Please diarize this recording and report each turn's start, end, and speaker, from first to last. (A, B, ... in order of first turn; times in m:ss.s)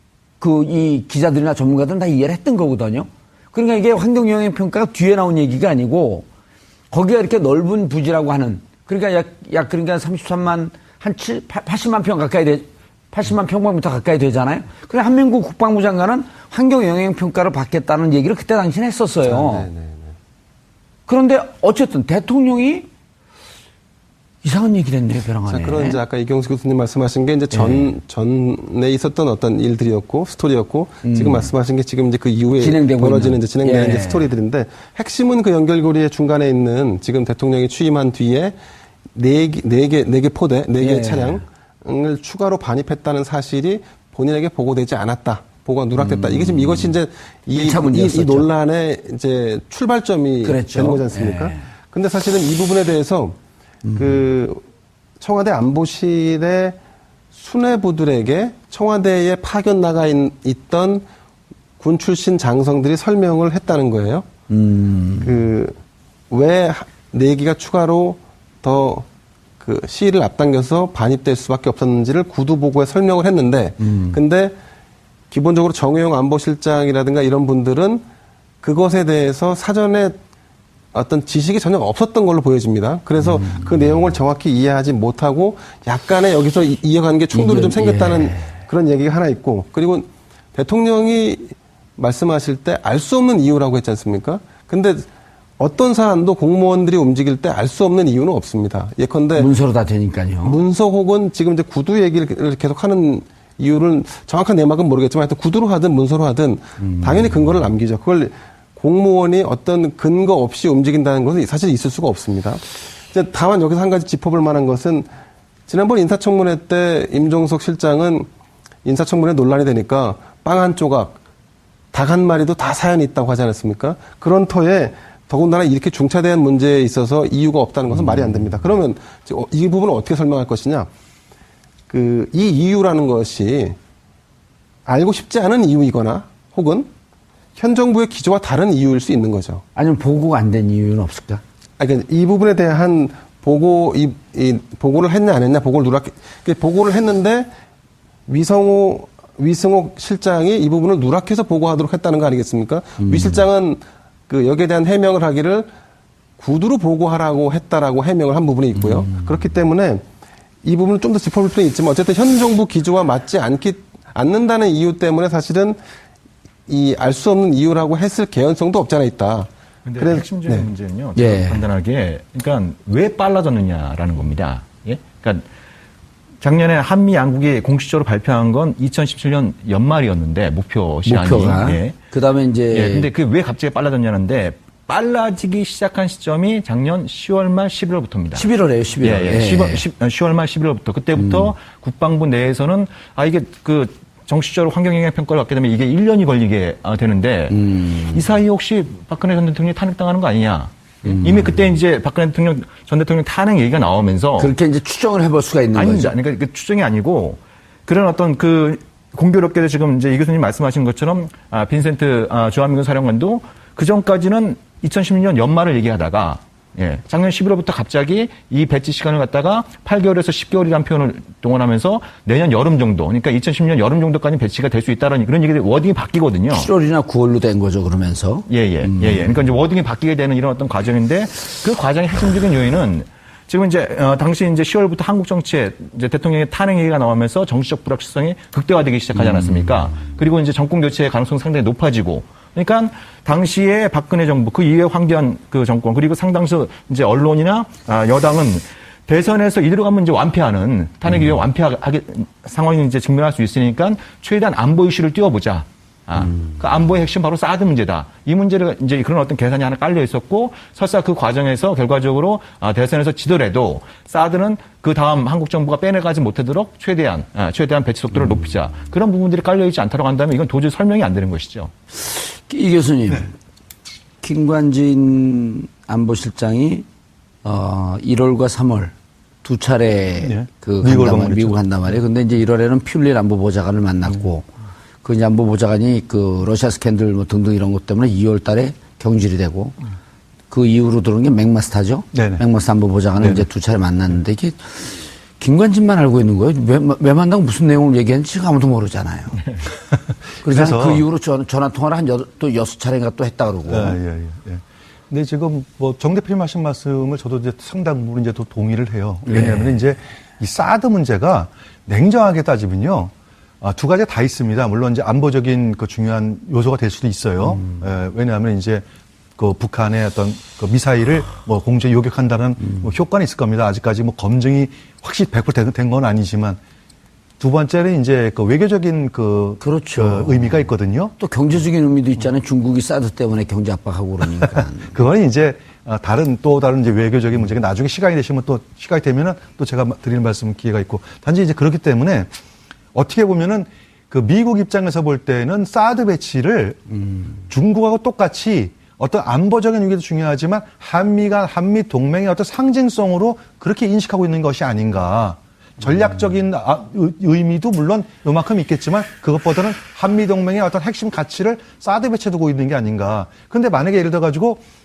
0:00.4-0:06.2 A
0:06.9-0:19.7 A
0:19.2-0:20.2 B
0:21.1-0:22.9 A
0:24.4-0:26.0 A
0:25.5-0:38.6 B
0:27.5-0:27.9 A
0:31.0-0:31.5 A
0:32.5-0:34.3 A
0:39.1-0:53.4 B
0:40.8-0:41.4 A
0:46.0-0:46.9 A
0:47.5-0:48.5 A
0:50.4-0:51.7 A
0:53.8-0:54.3 A
0:53.9-0:54.6 B
0:55.2-0:56.8 B
0:57.3-1:01.1 B
1:01.8-1:04.3 B
1:04.5-1:05.4 A
1:05.2-1:05.8 B
1:06.3-1:09.1 B
1:09.6-1:14.6 B
1:13.8-1:14.2 A
1:15.3-1:18.0 B
1:18.6-1:20.2 B
1:20.9-1:39.5 B
1:23.2-1:24.1 A
1:27.3-1:28.5 A
1:39.4-1:40.6 A
1:40.4-1:55.1 B
1:46.8-1:47.6 A
1:55.7-1:58.3 B
1:58.8-2:01.2 B
2:01.9-2:10.9 B
2:11.9-2:13.8 B
2:14.9-2:16.9 B
2:17.6-2:19.6 B
2:19.8-2:21.4 A
2:21.8-2:27.5 B
2:28.3-2:35.7 B
2:33.0-2:33.4 A
2:36.4-2:40.1 B
2:38.8-2:39.3 A
2:40.6-2:45.8 B
2:46.7-2:50.7 B
2:49.9-2:55.4 C
2:51.2-2:51.7 A
2:56.4-3:02.0 C
3:01.1-3:03.1 A
3:02.7-3:08.5 C
3:08.3-3:09.9 A
3:09.0-3:24.6 C
3:11.2-3:11.5 A
3:17.5-3:18.3 A
3:21.0-3:21.7 A
3:24.4-3:26.1 A
3:25.7-3:46.7 C
3:46.5-3:49.4 A
3:48.5-4:31.7 C
4:31.9-4:33.3 A
4:34.2-4:36.8 A
4:37.4-4:44.5 A
4:40.2-4:42.0 D
4:45.0-4:49.8 A
4:50.5-4:59.6 A
4:52.1-4:52.4 D
4:53.2-4:53.4 D
5:00.4-5:01.0 D
5:00.4-5:04.0 A
5:03.7-5:18.8 D
5:09.3-5:09.8 A
5:19.4-5:26.6 D
5:27.4-5:31.2 D
5:29.6-5:30.7 A
5:31.2-5:35.0 A
5:34.3-5:42.3 D
5:42.9-6:04.6 D